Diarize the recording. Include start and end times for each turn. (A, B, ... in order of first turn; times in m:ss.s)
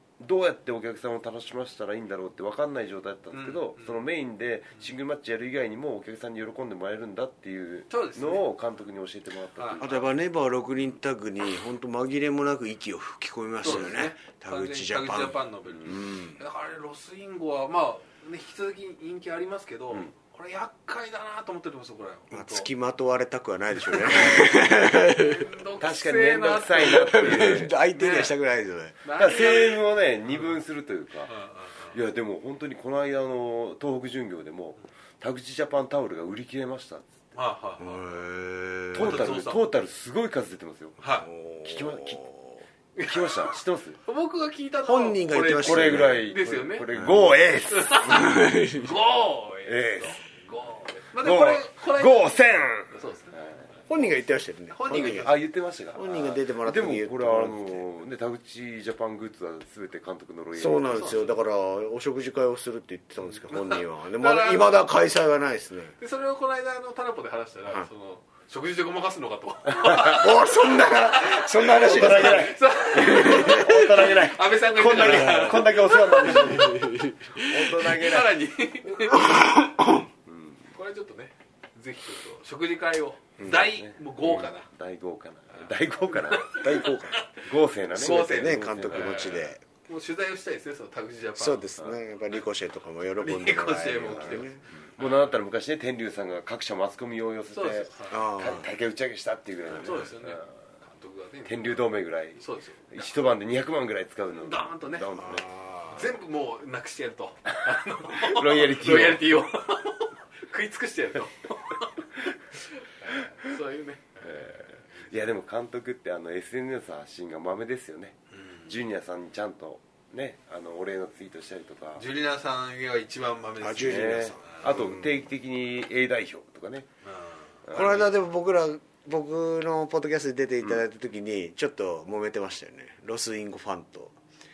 0:00.2-0:10.0 A
0:03.3-0:04.0 B
0:07.9-0:08.4 B
0:09.6-0:09.9 B
0:09.8-0:16.4 C
0:13.6-0:22.7 B
0:15.7-0:16.2 A
0:22.3-0:25.5 C
0:23.9-0:28.3 B
0:25.8-0:27.7 A
0:26.8-0:29.0 C
0:29.0-0:30.6 B
0:29.2-0:31.3 A
0:31.3-0:32.0 B
0:31.9-0:37.2 A
0:37.3-0:38.1 B
0:37.8-0:39.3 C
0:38.9-0:41.0 A
0:39.0-0:39.6 B
0:41.0-0:41.3 B
0:41.1-0:42.6 C
0:41.6-0:42.2 A
0:43.0-0:43.5 B
0:43.0-0:44.0 A
0:44.0-0:46.9 B
0:44.8-0:46.3 C
0:45.6-0:48.4 A
0:46.9-0:47.5 C
0:47.7-0:52.3 B
0:48.0-0:48.9 C
0:49.6-0:50.2 A
0:51.2-0:53.6 A
0:52.9-0:53.4 B
0:53.9-0:55.3 C
0:54.7-0:55.4 B
0:54.9-1:01.1 A
0:55.9-0:57.8 C
1:00.6-1:05.9 C
1:00.9-1:01.4 B
1:03.5-1:04.8 B
1:06.0-1:16.7 B
1:09.8-1:10.2 A
1:09.8-1:13.9 C
1:11.8-1:16.8 A
1:15.0-1:17.7 C
1:17.4-1:18.4 A
1:17.7-1:19.4 B
1:19.0-1:20.1 C
1:20.2-1:20.7 A
1:20.7-1:24.7 B
1:23.4-1:23.6 C
1:23.4-1:26.6 A
1:26.1-1:27.4 B
1:26.5-1:27.2 C
1:27.4-1:29.4 A
1:27.9-1:31.7 B
1:28.0-1:29.6 C
1:31.4-1:34.6 C
1:33.2-1:35.3 B
1:35.0-1:40.5 A
1:37.5-1:38.2 B
1:38.1-1:38.7 C
1:39.7-1:42.9 B
1:41.4-1:45.4 A
1:44.4-1:45.1 B
1:45.1-1:46.0 C
1:45.9-1:55.1 B
1:48.1-1:49.2 A
1:54.2-1:58.2 A
1:58.3-1:58.8 B
1:58.7-2:02.0 A
2:02.0-2:04.7 B
2:03.6-2:05.2 C
2:03.8-2:06.9 A
2:07.0-2:08.2 B
2:07.7-2:08.0 A
2:07.7-2:14.1 C